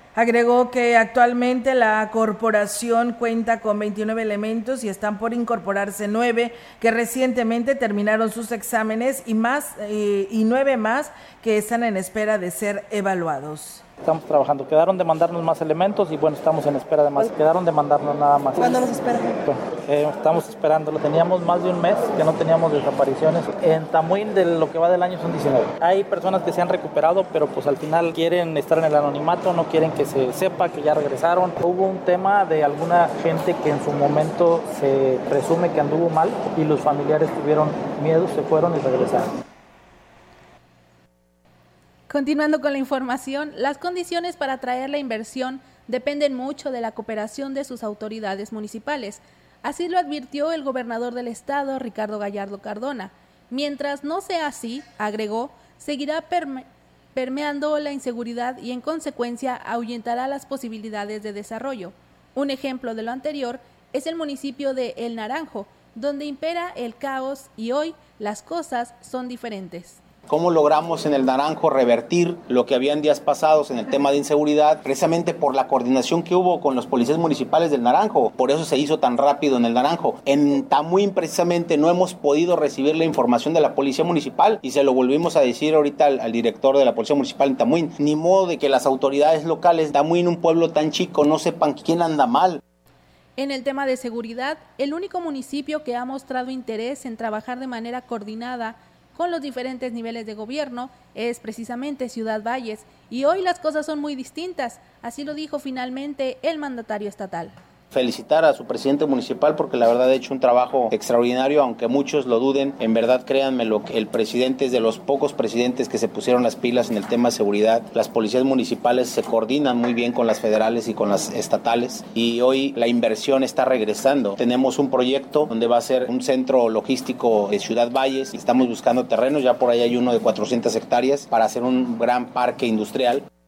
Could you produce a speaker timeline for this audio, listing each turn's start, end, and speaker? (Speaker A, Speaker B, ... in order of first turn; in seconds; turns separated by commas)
Speaker A: 0.2-13.8, Speaker B: 14.0-39.3, Speaker C: 42.1-70.0, Speaker D: 70.3-92.6, Speaker C: 93.4-107.5, Speaker D: 107.9-133.2